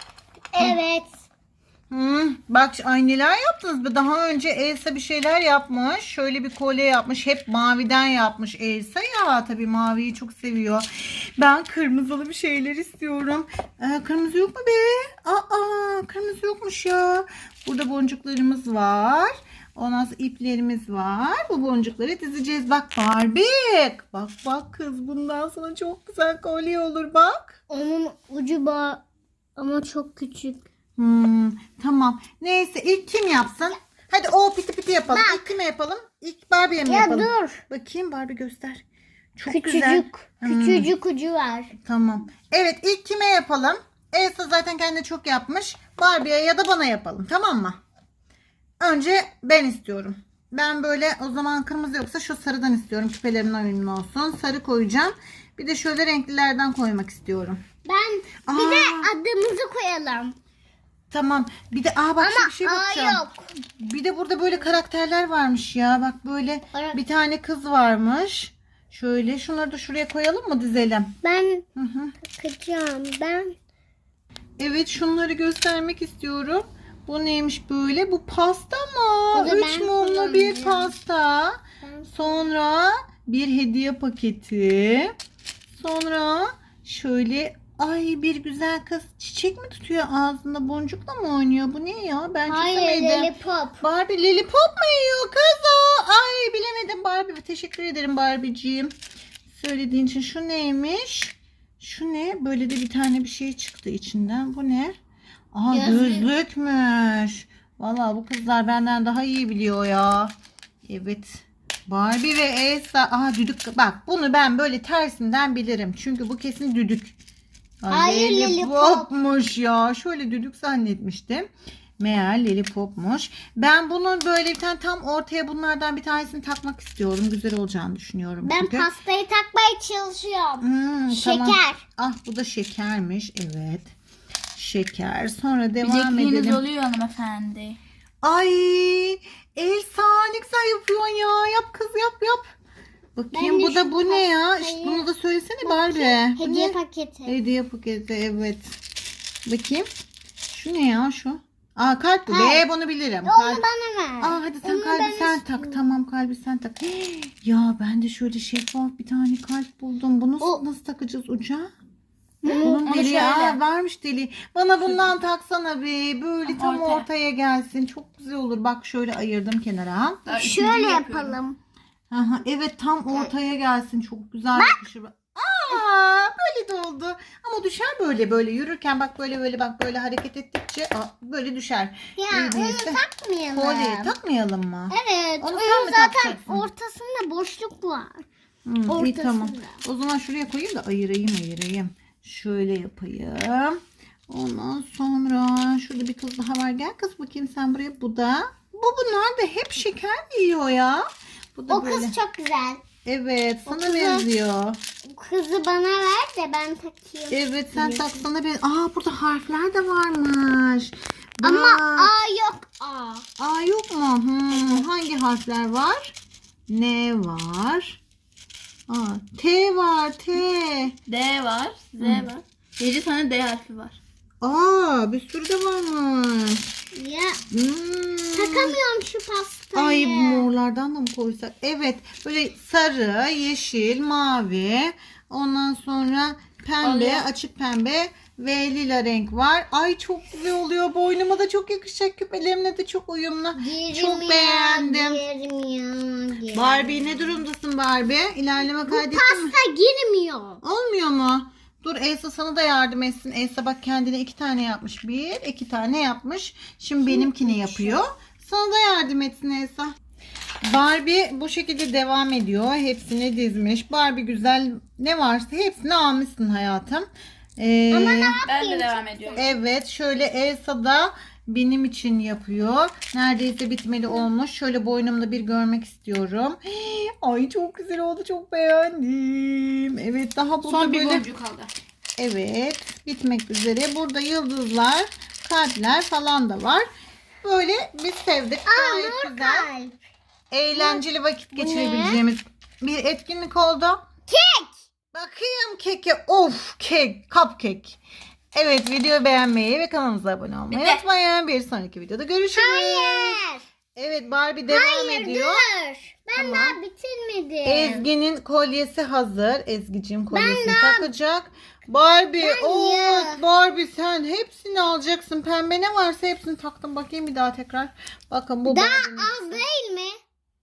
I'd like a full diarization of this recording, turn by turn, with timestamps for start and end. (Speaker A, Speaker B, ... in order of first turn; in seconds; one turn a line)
Speaker A: 0.5-1.1
Speaker B: 1.9-27.6
Speaker A: 27.7-29.0
Speaker A: 29.6-30.6
Speaker B: 31.0-38.8
Speaker A: 35.1-35.5
Speaker A: 36.9-37.6
Speaker B: 39.4-40.9
Speaker A: 39.5-41.7
Speaker B: 41.7-47.8
Speaker B: 48.8-57.6
Speaker A: 57.8-60.4
Speaker B: 58.5-59.1
Speaker B: 61.1-71.1
Speaker A: 62.2-63.5
Speaker A: 66.7-67.0
Speaker A: 71.2-71.6
Speaker B: 71.8-72.2
Speaker A: 72.3-73.5
Speaker B: 74.6-85.1
Speaker A: 79.3-80.9
Speaker A: 81.8-82.2
Speaker B: 85.8-93.3
Speaker A: 92.5-93.8
Speaker B: 93.8-98.9
Speaker B: 99.5-105.0
Speaker B: 105.5-110.3
Speaker A: 105.7-106.3
Speaker B: 110.9-117.1
Speaker B: 117.8-121.5
Speaker A: 117.9-119.1
Speaker B: 122.0-128.9
Speaker A: 128.4-131.8
Speaker B: 130.6-133.9
Speaker B: 134.5-136.6
Speaker C: 135.8-137.8
Speaker B: 138.2-142.5
Speaker B: 143.2-148.8
Speaker A: 143.3-145.1
Speaker A: 145.6-147.3
Speaker B: 149.4-149.9
Speaker B: 150.5-153.6
Speaker A: 152.3-152.6
Speaker A: 153.2-155.8
Speaker B: 154.2-161.7
Speaker A: 162.4-162.8
Speaker C: 162.5-163.6
Speaker B: 162.6-170.2
Speaker C: 164.8-165.1
Speaker C: 166.4-167.1
Speaker C: 170.2-171.3
Speaker A: 170.3-171.6
Speaker B: 172.1-183.0
Speaker A: 182.2-184.1
Speaker B: 183.5-186.7
Speaker A: 184.9-188.2
Speaker B: 188.7-202.1
Speaker A: 188.9-189.8
Speaker A: 201.7-202.8
Speaker B: 203.0-204.8
Speaker A: 203.7-204.2
Speaker A: 205.0-208.3
Speaker B: 207.3-212.1
Speaker A: 211.4-213.2
Speaker B: 213.4-216.1
Speaker A: 214.5-214.9
Speaker B: 216.7-218.0
Speaker B: 218.9-220.9
Speaker C: 221.1-224.0
Speaker B: 222.0-222.3
Speaker B: 224.4-226.6
Speaker A: 226.9-227.4
Speaker B: 227.5-228.7
Speaker A: 228.3-230.5
Speaker B: 229.7-245.2
Speaker C: 236.8-237.3
Speaker A: 243.5-247.4
Speaker B: 246.5-249.5
Speaker A: 248.9-250.6
Speaker B: 250.6-259.9
Speaker A: 257.0-258.0
Speaker B: 260.6-267.1
Speaker B: 267.6-268.4
Speaker A: 267.9-269.4
Speaker C: 268.4-269.5
Speaker B: 269.4-281.3
Speaker C: 280.6-281.7
Speaker B: 282.2-286.9
Speaker B: 287.4-289.7
Speaker A: 288.7-290.0
Speaker B: 290.5-294.0
Speaker A: 290.7-291.0
Speaker A: 291.6-292.2
Speaker A: 294.3-294.7
Speaker B: 295.1-298.0
Speaker B: 298.5-303.4
Speaker C: 300.7-301.0
Speaker A: 302.6-303.6
Speaker B: 304.0-305.6
Speaker A: 304.7-308.1
Speaker B: 306.3-306.8
Speaker B: 307.6-319.6
Speaker A: 310.3-311.1
Speaker A: 312.4-313.4
Speaker A: 318.7-320.1